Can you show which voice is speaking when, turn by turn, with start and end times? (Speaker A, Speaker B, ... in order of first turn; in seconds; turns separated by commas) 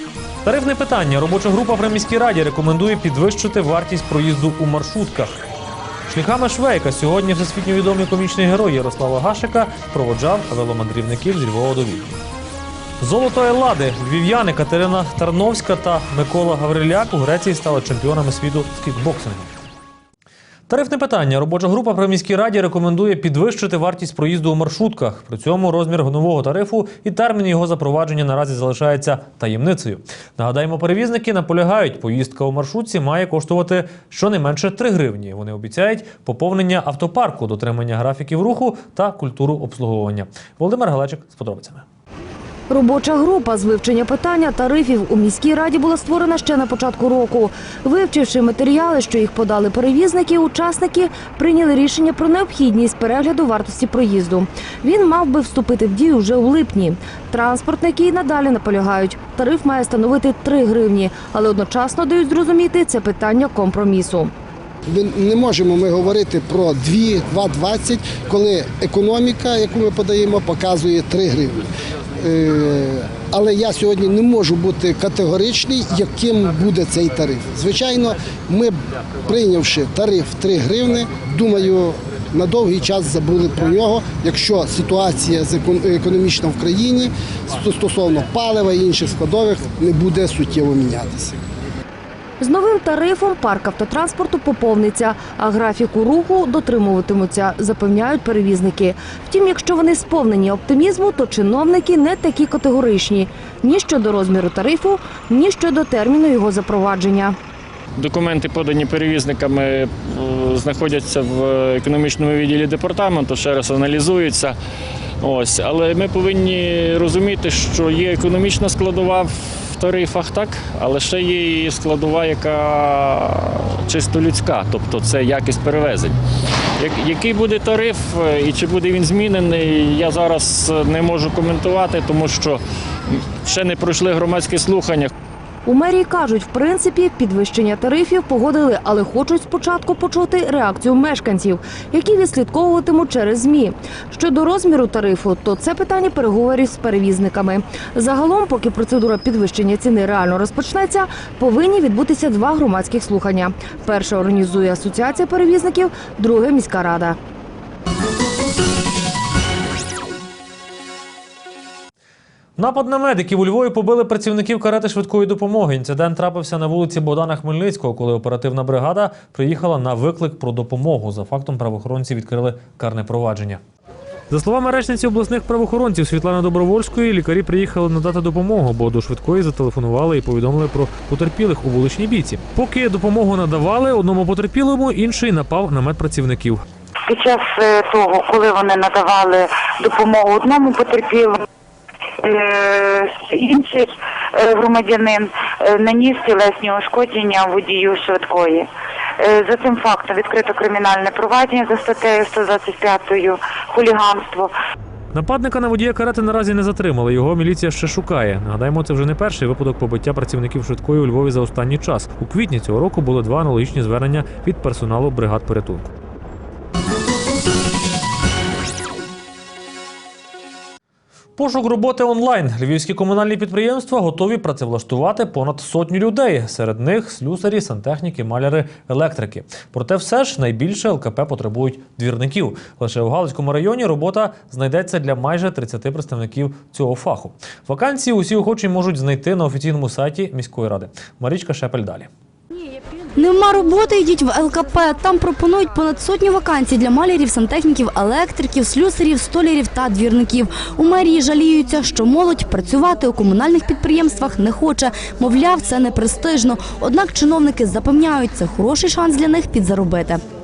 Speaker A: 0.4-5.4, Speaker A: 6.1-12.2, Speaker A: 13.0-19.6, Speaker A: 20.7-41.9, Speaker B: 42.7-64.3, Speaker C: 64.9-71.6, Speaker C: 72.2-78.8, Speaker C: 79.3-91.4, Speaker B: 92.4-107.4, Speaker D: 108.0-114.6, Speaker D: 115.2-126.2, Speaker D: 126.8-132.6, Speaker D: 133.4-135.1, Speaker B: 135.7-157.2, Speaker A: 162.6-173.6, Speaker A: 174.3-186.6, Speaker E: 187.1-191.4, Speaker E: 192.2-198.7, Speaker E: 199.2-204.5, Speaker A: 205.1-215.9, Speaker A: 221.4-242.1, Speaker F: 243.2-260.2